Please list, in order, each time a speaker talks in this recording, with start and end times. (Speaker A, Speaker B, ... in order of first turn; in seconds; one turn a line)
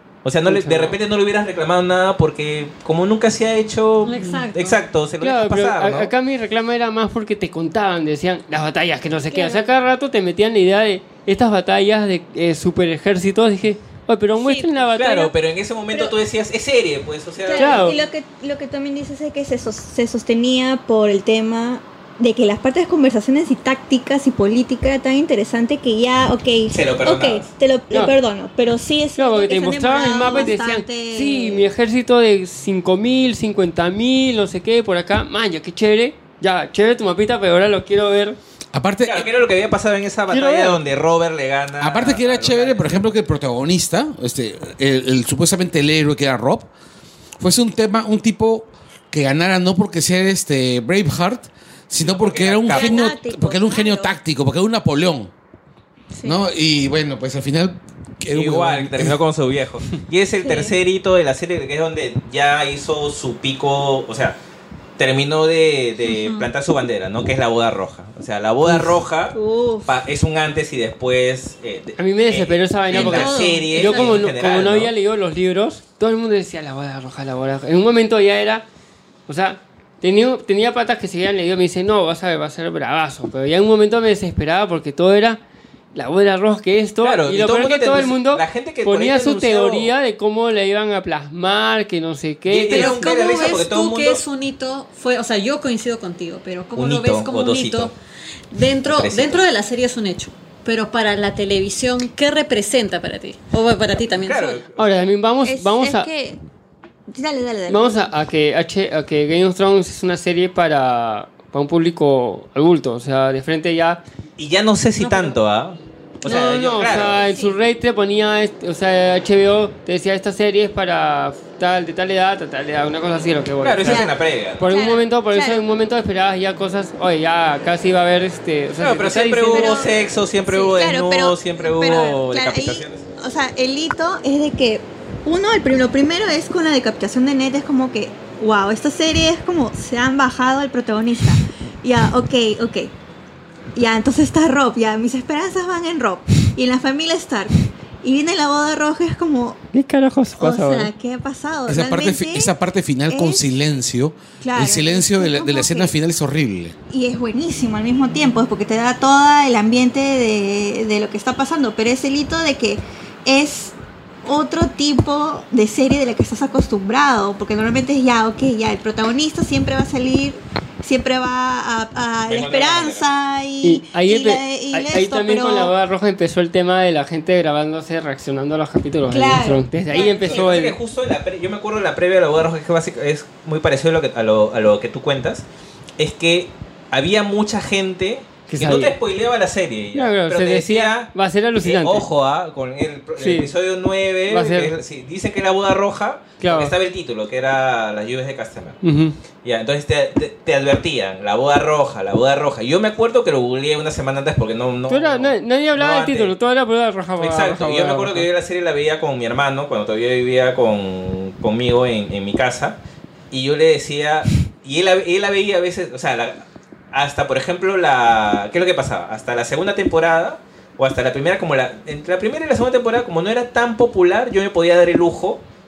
Speaker A: 0.2-6.1
Speaker B: 0.5-1.0
Speaker C: 4.0-4.8
Speaker B: 5.2-15.3
Speaker D: 14.4-14.7
Speaker A: 15.0-18.0
Speaker D: 17.4-31.7
Speaker B: 17.6-18.0
Speaker A: 26.7-27.5
Speaker B: 29.2-38.4
Speaker E: 38.7-39.3
Speaker A: 39.0-43.0
Speaker B: 40.3-40.8
Speaker E: 41.8-46.7
Speaker E: 47.4-55.3
Speaker A: 52.0-53.1
Speaker D: 52.7-54.1
Speaker D: 56.1-56.4
Speaker E: 56.2-59.2
Speaker A: 58.3-64.4
Speaker D: 60.4-60.8
Speaker A: 65.0-74.9
Speaker C: 66.1-66.4
Speaker B: 68.7-68.9
Speaker D: 69.3-69.9
Speaker B: 72.0-78.7
Speaker C: 72.9-74.2
Speaker B: 79.3-85.4
Speaker B: 85.9-93.0
Speaker A: 87.0-89.9
Speaker A: 92.5-94.2
Speaker C: 92.7-97.9
Speaker A: 96.8-97.9
Speaker C: 98.5-104.6
Speaker A: 98.8-99.4
Speaker A: 104.2-105.1
Speaker B: 104.8-106.1
Speaker D: 105.4-106.4
Speaker D: 107.1-108.1
Speaker B: 107.7-114.0
Speaker A: 114.4-117.3
Speaker C: 115.0-115.3
Speaker B: 116.2-129.8
Speaker D: 116.3-117.6
Speaker A: 123.6-124.8
Speaker D: 123.8-124.1
Speaker D: 124.7-125.6
Speaker A: 128.8-133.0
Speaker D: 129.5-142.9
Speaker D: 143.8-149.6
Speaker B: 149.7-150.9
Speaker D: 150.4-152.5
Speaker E: 151.7-156.8
Speaker D: 153.1-153.5
Speaker D: 154.4-155.9
Speaker D: 156.9-175.7
Speaker A: 172.3-173.1
Speaker B: 173.6-180.8
Speaker D: 179.1-180.7
Speaker A: 180.0-185.4
Speaker A: 186.0-198.8
Speaker B: 188.5-189.0
Speaker B: 189.9-192.1
Speaker B: 193.2-193.5
Speaker B: 194.3-194.7
Speaker B: 196.4-196.8
Speaker B: 198.8-199.2
Speaker A: 199.4-206.3
Speaker B: 204.9-208.3
Speaker A: 207.2-212.8
Speaker A: 213.3-225.4